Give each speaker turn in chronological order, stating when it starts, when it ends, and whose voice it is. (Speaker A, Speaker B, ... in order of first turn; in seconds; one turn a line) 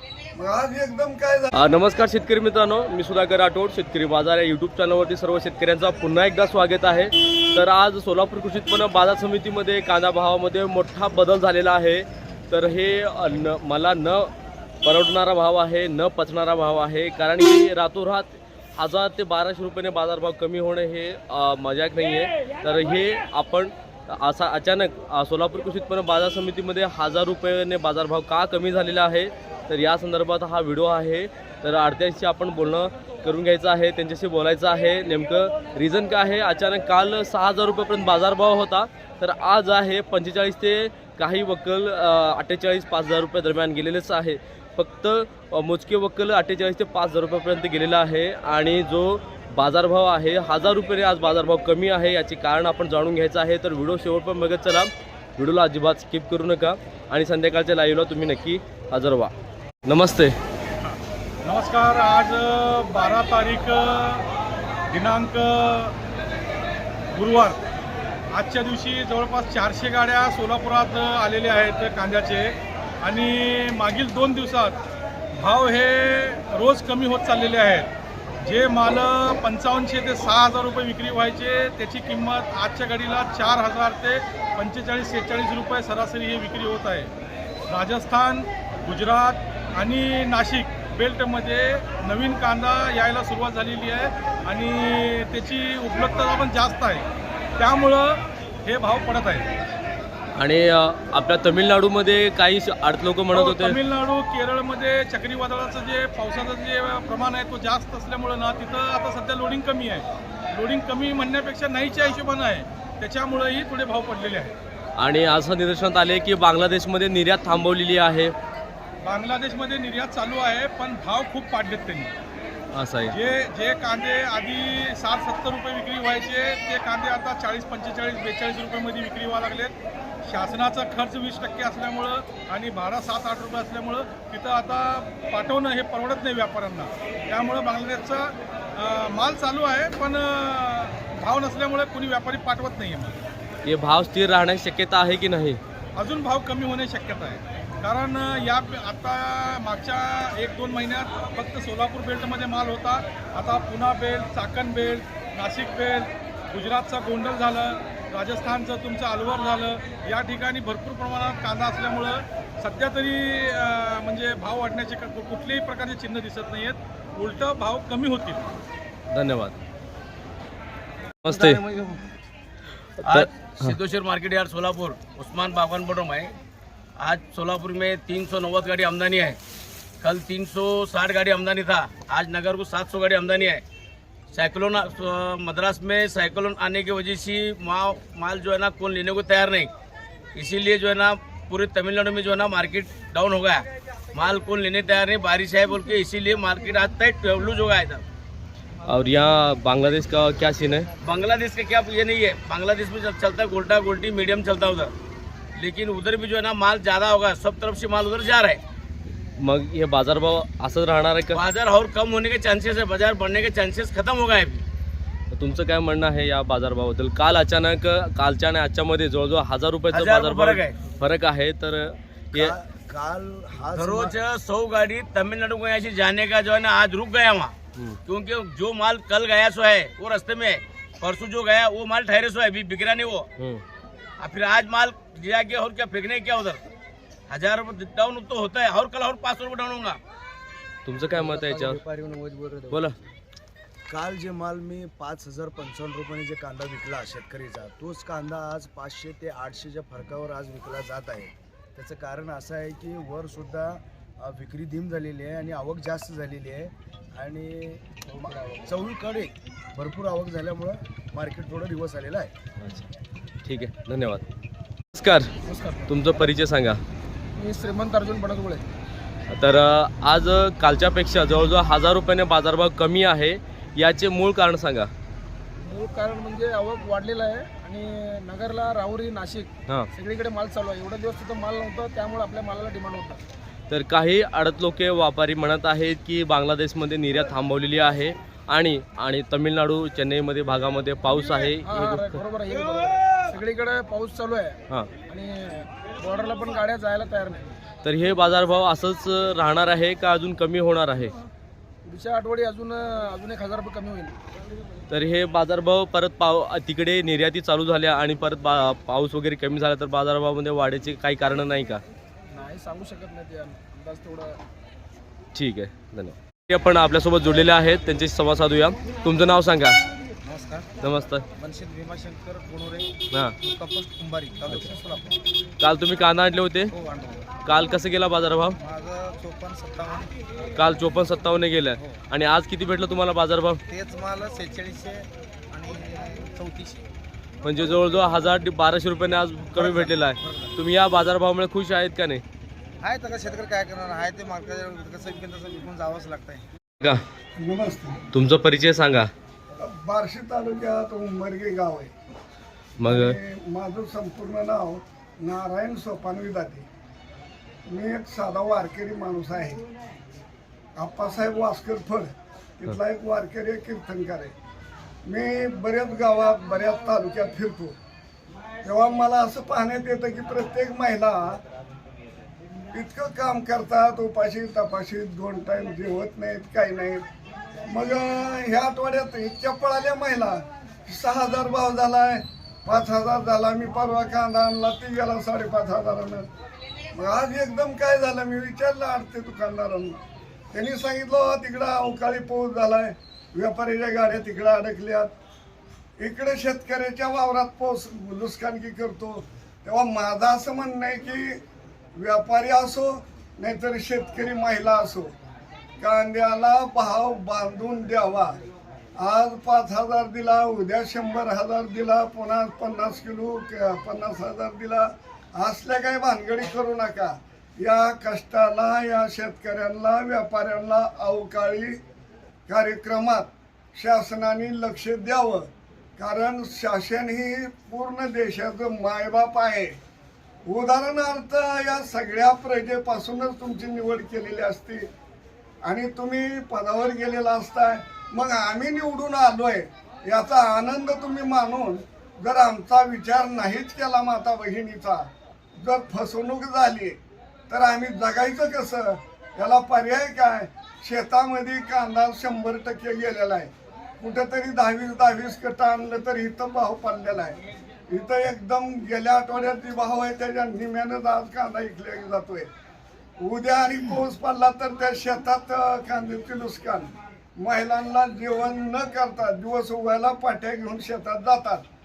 Speaker A: 0.3-1.5
Speaker B: 1.5-59.3
Speaker B: 59.8-60.4
Speaker C: 60.8-64.2
Speaker C: 64.9-66.0
Speaker C: 67.1-67.6
Speaker C: 68.3-74.8
Speaker C: 75.3-77.9
Speaker C: 78.4-87.1
Speaker C: 87.7-97.1
Speaker C: 97.6-99.8
Speaker B: 100.3-103.8
Speaker C: 103.3-114.5
Speaker B: 115.0-118.3
Speaker C: 119.0-122.1
Speaker B: 122.7-123.2
Speaker C: 123.1-129.7
Speaker C: 130.2-143.2
Speaker B: 143.6-145.6
Speaker C: 145.9-168.5
Speaker B: 169.1-169.6
Speaker B: 171.2-171.6
Speaker D: 171.3-172.0
Speaker B: 173.0-173.7
Speaker E: 173.0-176.3
Speaker E: 177.0-179.4
Speaker E: 180.0-183.6
Speaker E: 184.3-189.7
Speaker E: 190.3-198.0
Speaker B: 198.8-200.9
Speaker E: 201.0-204.9
Speaker E: 205.5-208.6
Speaker B: 209.4-211.4
Speaker E: 211.3-214.6
Speaker B: 215.3-222.5
Speaker E: 219.9-220.8
Speaker D: 222.3-224.2
Speaker E: 223.7-233.3
Speaker B: 233.4-233.6
Speaker E: 234.2-236.6
Speaker E: 237.3-240.0
Speaker B: 240.8-241.8
Speaker D: 241.1-242.9
Speaker D: 243.9-262.3
Speaker F: 258.1-258.7
Speaker B: 262.6-262.9
Speaker B: 263.4-264.2
Speaker B: 264.9-265.3
Speaker F: 265.4-266.2
Speaker B: 265.9-266.8
Speaker F: 267.3-268.6
Speaker B: 269.3-274.9
Speaker F: 275.6-283.2
Speaker B: 283.7-292.1
Speaker F: 291.5-297.6
Speaker B: 297.8-301.2
Speaker F: 301.8-304.2
Speaker B: 304.9-311.8
Speaker F: 312.3-314.4
Speaker B: 315.3-319.8
Speaker D: 320.2-320.7
Speaker B: 320.8-321.2
Speaker D: 321.4-325.2
Speaker B: 325.6-326.7
Speaker D: 326.7-327.3
Speaker B: 327.4-328.6
Speaker D: 328.6-330.1
Speaker B: 330.6-333.6
Speaker D: 333.7-336.9
Speaker B: 337.4-342.2
Speaker D: 339.5-340.5
Speaker D: 342.8-346.4
Speaker A: 347.4-348.0
Speaker B: 348.1-349.1
Speaker A: 349.6-351.9
Speaker B: 352.8-353.2
Speaker A: 352.8-356.6
Speaker A: 357.7-359.6
Speaker A: 360.8-362.1
Speaker A: 362.6-364.3
Speaker A: 365.1-367.8
Speaker A: 368.6-371.4
Speaker A: 372.7-377.0
Speaker A: 377.7-386.2
Speaker A: 386.9-390.0
Speaker A: 390.5-395.1
Speaker A: 396.0-401.4
Speaker A: 401.9-405.1
Speaker A: 405.8-408.4
Speaker A: 409.0-421.8
Speaker A: 422.5-429.8
Speaker A: 430.4-434.9
Speaker A: 435.6-445.1
Speaker A: 445.6-447.0
Speaker A: 447.5-462.5
Speaker A: 463.2-471.6